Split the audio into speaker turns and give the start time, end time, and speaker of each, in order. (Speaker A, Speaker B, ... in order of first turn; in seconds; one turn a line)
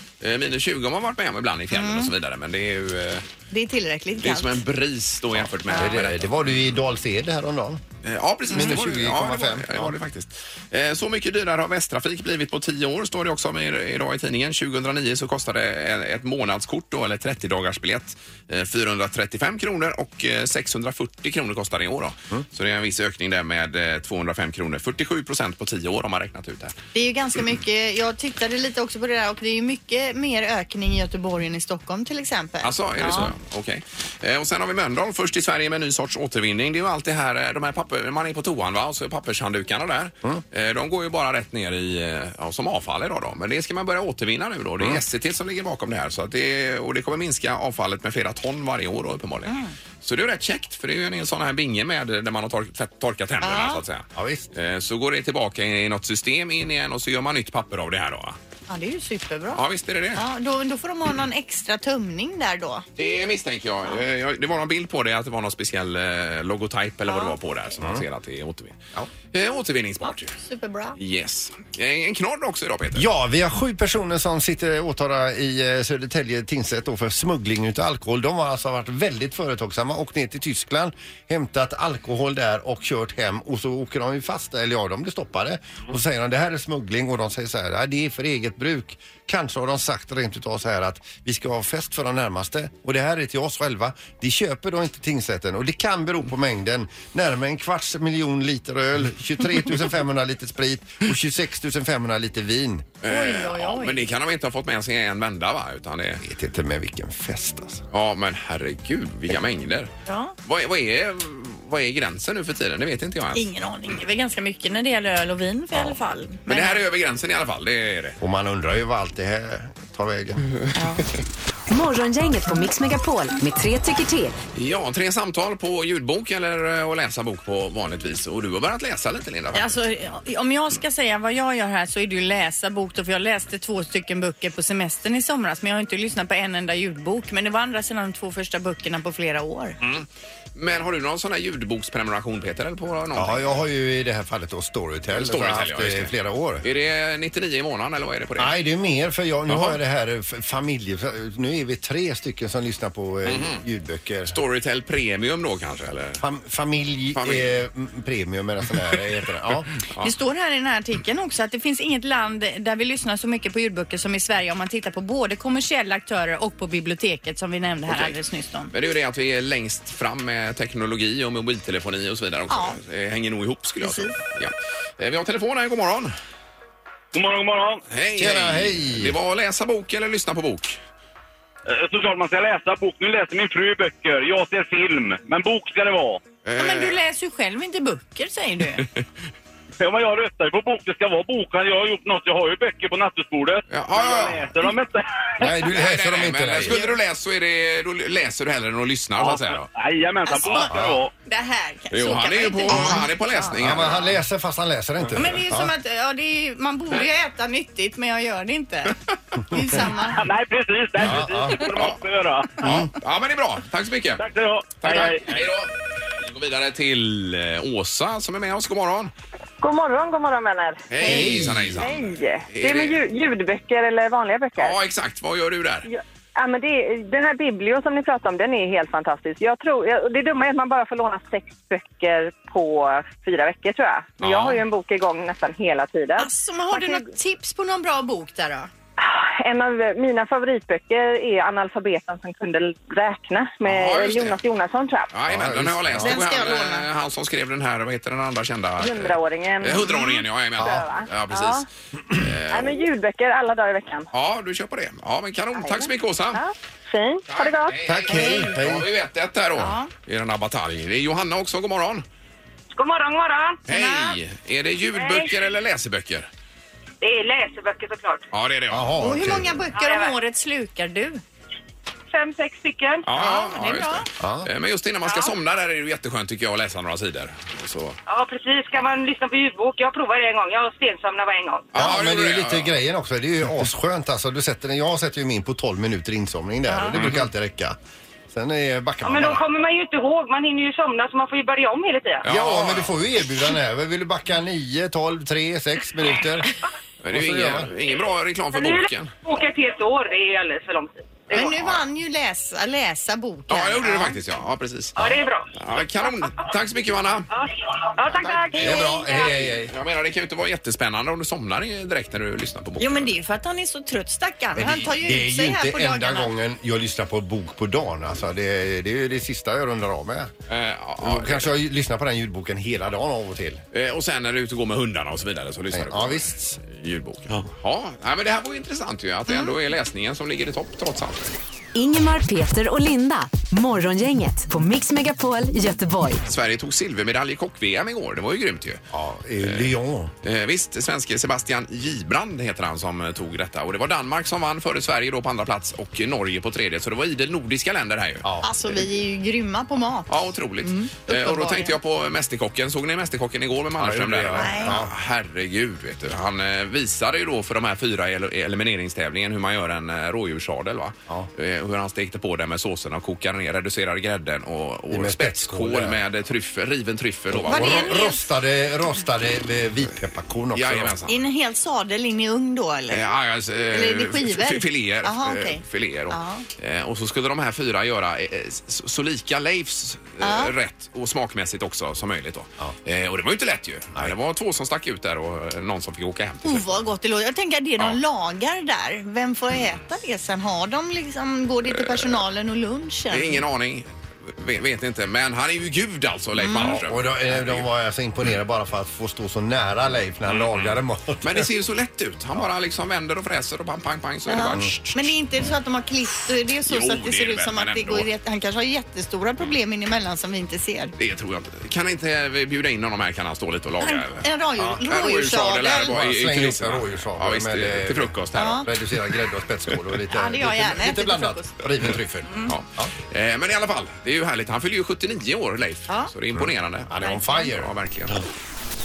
Speaker A: 0.2-3.3
Speaker B: 1.7-2.1
Speaker B: 3.5-4.6
Speaker A: 4.2-6.5
Speaker C: 5.7-7.8
Speaker B: 5.7-6.0
Speaker A: 8.0-26.7
Speaker C: 8.5-9.9
Speaker B: 26.9-33.3
Speaker A: 32.6-58.4
Speaker B: 49.5-49.7
Speaker B: 53.4-53.8
Speaker C: 54.1-54.5
Speaker B: 58.7-59.6
Speaker A: 59.5-60.2
Speaker B: 60.1-62.8
Speaker A: 63.0-70.4
Speaker B: 67.1-67.3
Speaker B: 70.3-71.0
Speaker A: 71.0-73.1
Speaker C: 72.9-102.9
Speaker A: 103.0-106.2
Speaker B: 103.0-104.0
Speaker C: 106.2-107.8
Speaker A: 107.9-109.9
Speaker B: 110.0-110.3
Speaker A: 110.4-113.5
Speaker B: 113.3-116.8
Speaker A: 116.5-118.2
Speaker C: 118.2-120.5
Speaker B: 120.7-121.0
Speaker D: 121.7-124.4
Speaker A: 124.5-129.7
Speaker B: 129.5-139.8
Speaker A: 139.8-143.6
Speaker C: 143.1-146.6
Speaker A: 145.1-148.5
Speaker C: 148.4-154.4
Speaker A: 149.5-149.8
Speaker A: 153.2-153.6
Speaker A: 154.3-156.2
Speaker C: 156.2-159.7
Speaker A: 157.2-157.5
Speaker B: 160.0-168.7
Speaker A: 167.9-168.1
Speaker A: 168.7-176.1
Speaker B: 172.5-172.8
Speaker B: 173.8-174.2
Speaker E: 177.1-177.8
Speaker A: 177.9-180.8
Speaker C: 178.2-179.2
Speaker E: 181.7-186.2
Speaker A: 186.4-187.0
Speaker B: 186.6-188.9
Speaker E: 189.8-195.5
Speaker A: 193.7-194.5
Speaker C: 195.4-196.8
Speaker A: 195.7-199.7
Speaker B: 196.7-197.0
Speaker E: 199.2-201.1
Speaker B: 200.3-200.7
Speaker A: 200.4-200.9
Speaker B: 201.2-203.6
Speaker A: 201.9-204.2
Speaker C: 203.6-205.7
Speaker B: 205.1-208.9
Speaker B: 209.5-210.2
Speaker E: 210.1-212.6
Speaker C: 211.0-211.6
Speaker A: 211.6-212.0
Speaker A: 212.6-214.2
Speaker E: 214.2-215.4
Speaker A: 214.8-219.1
Speaker F: 219.6-221.1
Speaker A: 220.9-223.0
Speaker C: 221.0-221.9
Speaker F: 221.8-224.8
Speaker A: 224.6-225.9
Speaker F: 225.8-237.0
Speaker A: 234.2-234.6
Speaker B: 236.2-238.7
Speaker F: 239.0-245.1
Speaker A: 243.6-244.4
Speaker A: 245.1-252.8
Speaker C: 245.3-246.2
Speaker B: 246.0-246.9
Speaker F: 248.8-251.7
Speaker F: 252.5-254.1
Speaker A: 254.1-256.4
Speaker F: 255.5-257.8
Speaker A: 257.3-262.0
Speaker C: 257.8-258.9
Speaker B: 258.1-258.5
Speaker B: 259.6-259.9
Speaker F: 262.7-263.6
Speaker B: 263.7-264.2
Speaker A: 263.7-266.3
Speaker F: 264.9-265.4
Speaker F: 267.0-268.3
Speaker A: 268.3-268.9
Speaker C: 268.7-269.6
Speaker B: 269.0-271.2
Speaker F: 269.7-270.1
Speaker F: 272.1-273.1
Speaker A: 273.1-278.0
Speaker B: 273.1-274.1
Speaker C: 274.2-274.5
Speaker F: 275.1-275.3
Speaker F: 278.1-281.7
Speaker A: 281.7-282.8
Speaker C: 281.7-287.8
Speaker B: 286.7-286.9
Speaker A: 286.9-287.3
Speaker C: 288.3-289.4
Speaker F: 289.0-292.2
Speaker A: 292.2-292.9
Speaker C: 292.2-296.5
Speaker A: 297.0-299.1
Speaker C: 297.1-297.7
Speaker F: 298.5-301.6
Speaker B: 301.3-304.2
Speaker A: 303.5-307.3
Speaker F: 304.9-305.5
Speaker F: 307.3-309.2
Speaker C: 308.5-309.7
Speaker B: 308.6-309.3
Speaker A: 309.2-313.1
Speaker B: 312.8-316.3
Speaker C: 314.6-320.3
Speaker A: 320.5-321.5
Speaker C: 321.0-323.6
Speaker A: 323.7-331.3
Speaker C: 325.7-326.6
Speaker B: 329.3-329.5
Speaker D: 331.7-336.2
Speaker A: 336.2-338.8
Speaker C: 338.9-340.1
Speaker A: 339.4-339.7
Speaker A: 340.2-348.2
Speaker C: 348.2-348.8
Speaker B: 348.4-351.8
Speaker A: 350.1-368.1
Speaker C: 353.8-354.9
Speaker B: 354.4-354.7
Speaker C: 364.9-366.0
Speaker C: 367.3-371.0
Speaker B: 367.5-368.3
Speaker A: 370.5-371.2
Speaker B: 371.1-373.1
Speaker A: 372.9-386.8
Speaker B: 373.7-376.4
Speaker B: 380.2-380.5
Speaker B: 386.4-393.4
Speaker A: 391.7-392.2
Speaker A: 393.1-397.7
Speaker B: 396.4-396.8
Speaker C: 396.5-401.5
Speaker A: 400.3-405.1
Speaker B: 404.3-410.9
Speaker A: 406.6-408.1
Speaker A: 411.0-414.3
Speaker B: 413.8-415.9
Speaker A: 414.8-418.8
Speaker C: 415.9-422.9
Speaker B: 418.4-418.7
Speaker B: 420.1-421.5
Speaker B: 422.3-422.5
Speaker A: 422.5-428.2
Speaker C: 426.3-427.7
Speaker B: 427.0-427.4